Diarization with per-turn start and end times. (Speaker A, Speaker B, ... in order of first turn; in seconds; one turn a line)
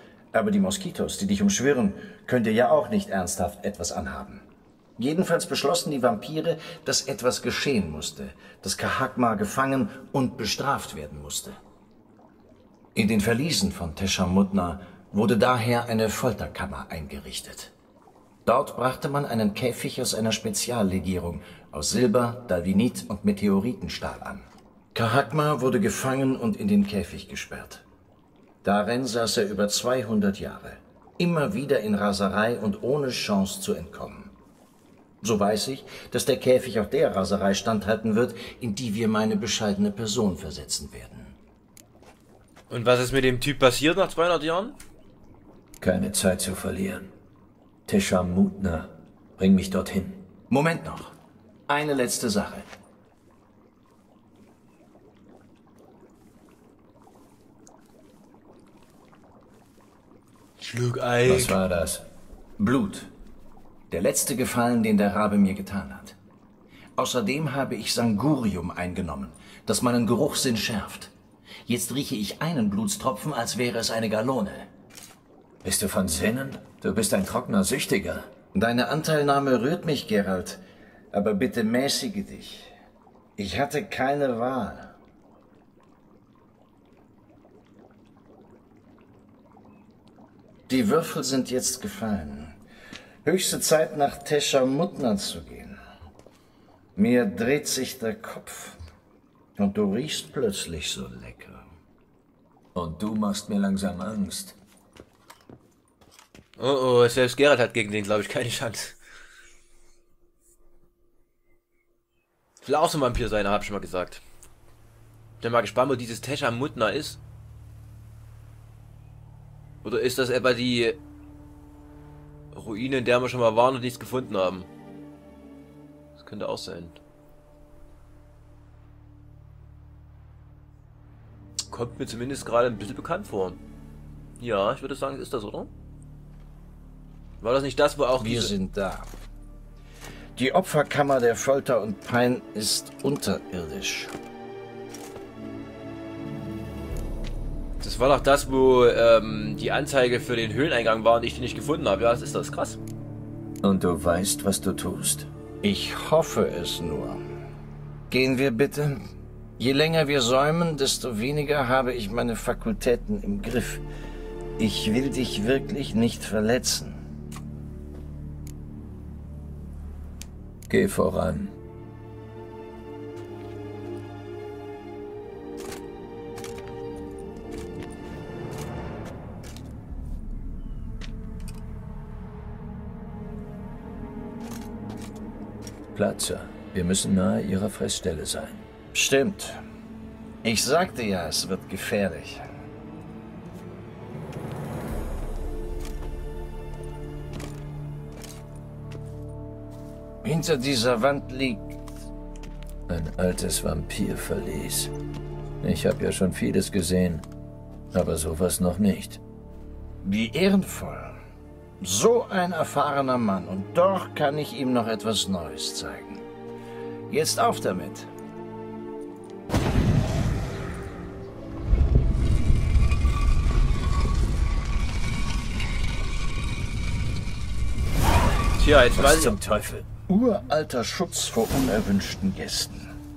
Speaker A: 0.3-4.4
Speaker A: 5.0-11.6
Speaker A: 12.9-17.7
Speaker A: 18.4-27.9
Speaker A: 28.6-34.3
Speaker A: 35.2-41.4
Speaker B: 42.7-44.8
Speaker C: 45.8-47.1
Speaker C: 47.9-50.2
Speaker A: 50.5-51.2
Speaker A: 51.7-52.7
Speaker B: 60.6-61.6
Speaker C: 61.3-62.0
Speaker A: 62.6-63.1
Speaker A: 63.9-66.2
Speaker A: 67.0-71.1
Speaker A: 71.7-74.7
Speaker C: 75.6-78.3
Speaker A: 78.5-80.6
Speaker A: 81.1-82.7
Speaker A: 83.4-85.0
Speaker A: 90.7-92.6
Speaker A: 93.2-95.8
Speaker A: 97.0-98.8
Speaker A: 99.6-101.7
Speaker C: 102.8-104.6
Speaker B: 106.6-109.0
Speaker B: 112.6-114.2
Speaker B: 115.4-117.2
Speaker B: 119.8-121.0
Speaker B: 122.5-124.7
Speaker B: 126.2-127.0
Speaker B: 131.7-133.6
Speaker B: 134.4-135.7
Speaker B: 137.4-138.5
Speaker A: 138.2-139.1
Speaker A: 140.4-144.1
Speaker B: 147.8-152.8
Speaker C: 153.6-155.3
Speaker A: 155.6-157.2
Speaker A: 158.1-159.0
Speaker A: 159.6-163.8
Speaker A: 164.6-167.0
Speaker C: 170.7-171.6
Speaker C: 185.9-188.6
Speaker A: 188.9-189.6
Speaker A: 190.4-192.4
Speaker A: 200.2-201.8
Speaker C: 202.9-204.9
Speaker C: 205.6-207.3
Speaker C: 207.9-209.2
Speaker A: 210.0-211.2
Speaker A: 211.8-216.2
Speaker A: 217.1-218.1
Speaker B: 228.6-229.4
Speaker C: 228.9-229.9
Speaker A: 230.1-232.9